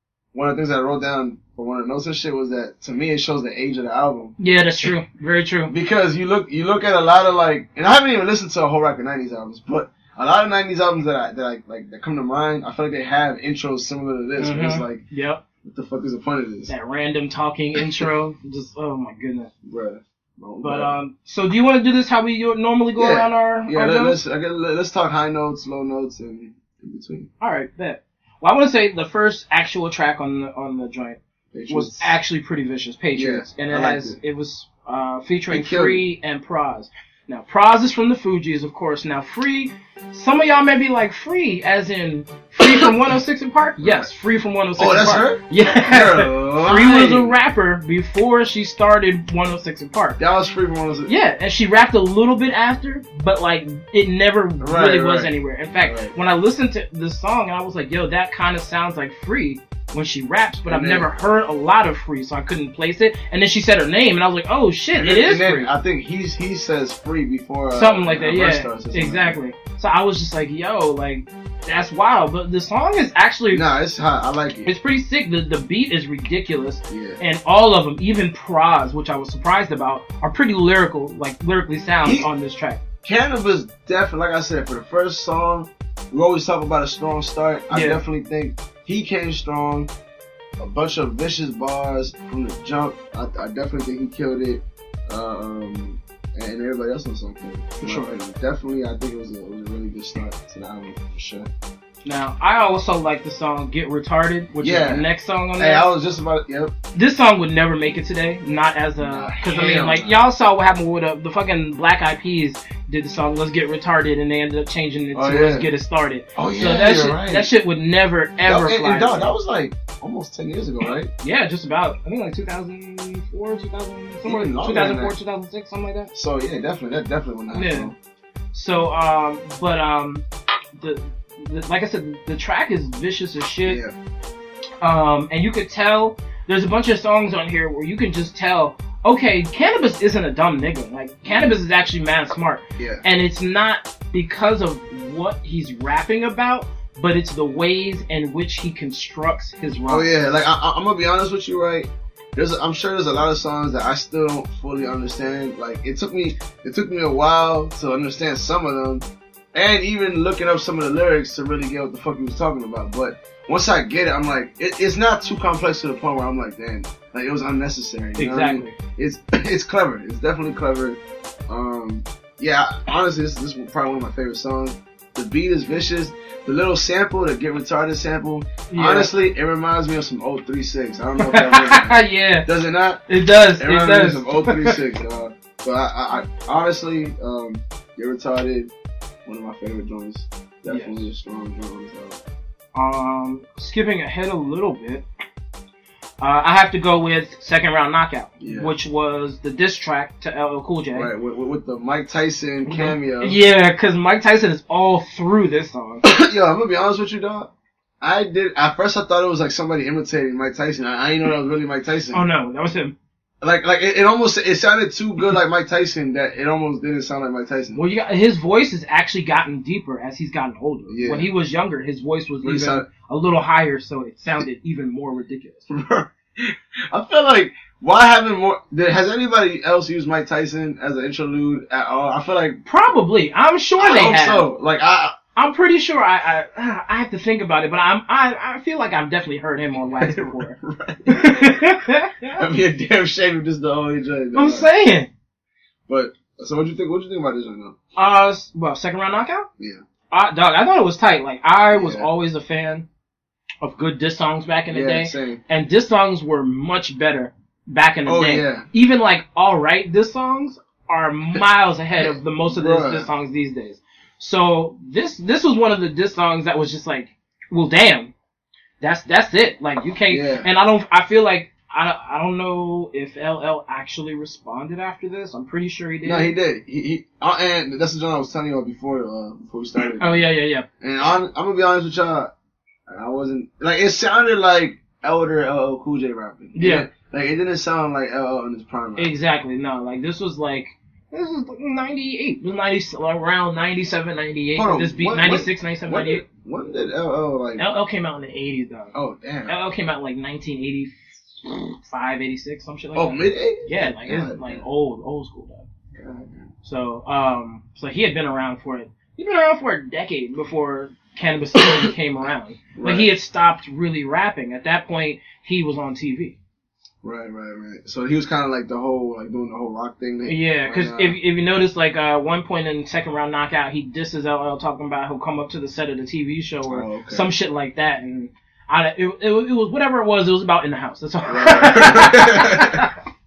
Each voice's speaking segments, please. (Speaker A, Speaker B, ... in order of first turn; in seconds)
Speaker A: 0.3-4.9, 5.7-15.0, 15.6-16.7, 17.8-18.1, 19.7-20.9, 23.0-27.3, 31.5-32.1, 33.1-34.2, 35.5-36.0, 42.6-42.9, 43.8-44.1, 44.8-47.4, 50.2-51.1, 54.6-55.3, 55.8-56.1, 60.7-61.1, 65.0-69.4, 73.5-74.7, 76.9-77.2, 83.0-89.9, 90.6-101.5, 104.6-105.1, 105.6-106.7, 109.0-110.2, 115.1-115.7, 116.4-117.5, 118.5-121.1, 124.2-125.2, 126.1-128.0, 133.6-133.9, 141.3-141.5, 142.8-143.0, 149.9-183.0, 183.6-188.7, 189.3-192.2, 198.4-198.7, 200.9-203.4, 206.0-212.2, 213.4-217.8, 220.9-221.3, 222.4-222.9, 225.7-232.6, 233.8-235.2, 240.0-241.6, 242.4-244.7, 245.9-247.8, 251.7-252.1, 254.7-255.4, 258.1-258.7, 262.0-263.1, 270.1-270.5, 276.0-280.2, 280.8-282.3, 282.9-289.1, 294.6-297.6, 298.9-299.6, 302.9-304.6, 305.9-306.5, 312.8-313.1, 317.0-321.2, 326.7-327.3, 331.3-332.9
Speaker B: 4.4-5.7, 14.4-15.4, 16.7-19.5, 20.6-24.2, 27.4-50.2, 51.1-65.7, 67.7-73.7, 74.7-82.8, 87.7-88.0, 97.8-98.1, 102.0-105.9, 106.9-119.3, 121.2-126.1, 127.5-127.9, 128.5-130.2, 130.8-133.8, 134.8-150.2, 168.2-168.8, 178.7-179.1, 181.2-182.5, 183.1-184.8, 190.7-191.1, 192.7-195.1, 196.2-201.1, 202.7-206.0, 212.1-212.9, 217.7-225.7, 232.7-234.5, 235.3-242.4, 244.3-245.1, 248.0-249.5, 250.1-252.9, 253.6-268.1, 268.8-276.3, 280.0-280.7, 286.6-286.9, 289.0-296.2, 297.6-298.9, 299.5-305.7, 306.6-316.4, 320.2-333.0